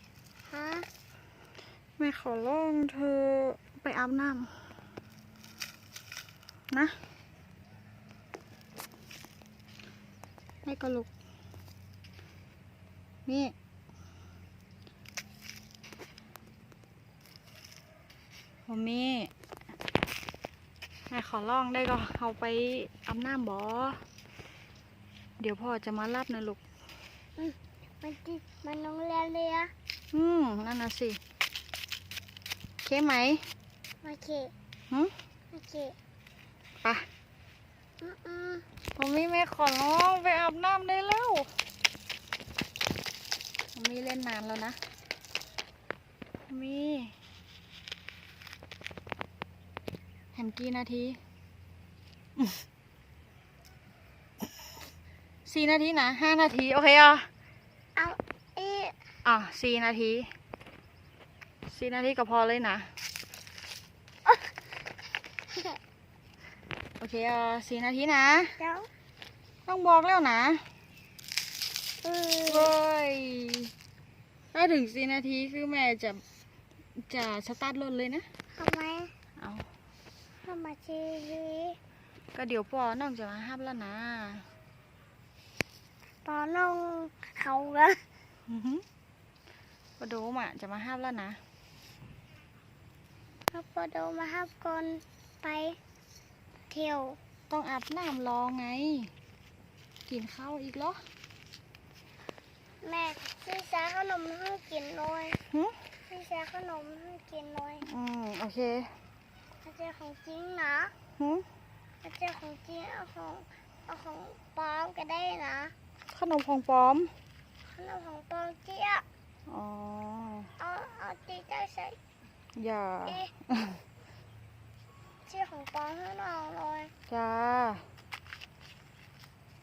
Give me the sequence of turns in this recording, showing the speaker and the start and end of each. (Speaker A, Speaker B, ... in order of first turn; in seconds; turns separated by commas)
Speaker A: 0.5-0.9, Speaker B: 2.0-4.5, Speaker B: 6.7-7.0, Speaker B: 10.6-11.1, Speaker B: 13.2-13.5, Speaker B: 18.7-19.3, Speaker B: 21.1-24.0, Speaker B: 25.4-26.6, Speaker A: 27.4-29.7, Speaker B: 30.1-31.2, Speaker B: 32.8-33.5, Speaker A: 34.0-34.5, Speaker A: 35.5-36.0, Speaker A: 38.0-38.7, Speaker B: 38.9-41.5, Speaker B: 43.7-44.8, Speaker B: 46.5-47.1, Speaker B: 50.3-51.2, Speaker B: 55.5-57.3, Speaker A: 58.0-59.0, Speaker B: 59.2-60.3, Speaker B: 61.6-62.9, Speaker B: 67.0-68.5, Speaker A: 68.6-68.9, Speaker B: 69.7-70.6, Speaker A: 72.0-72.7, Speaker B: 72.5-73.7, Speaker B: 74.5-76.2, Speaker B: 77.0-78.3, Speaker A: 78.5-79.1, Speaker B: 79.4-79.7, Speaker A: 80.4-81.8, Speaker B: 82.3-84.5, Speaker A: 86.2-88.0, Speaker B: 88.5-88.8, Speaker B: 90.0-91.4, Speaker A: 93.5-95.8, Speaker A: 96.7-97.2, Speaker B: 97.5-99.1, Speaker B: 100.1-101.1, Speaker A: 102.8-105.4, Speaker B: 105.5-105.8, Speaker A: 106.1-107.9, Speaker B: 107.8-108.9, Speaker A: 109.6-110.9, Speaker B: 111.2-111.5, Speaker A: 112.0-115.7, Speaker B: 116.1-117.1, Speaker A: 117.7-119.0, Speaker B: 119.5-120.5, Speaker A: 120.6-122.0, Speaker B: 122.5-123.8, Speaker A: 125.2-126.9, Speaker B: 127.1-127.9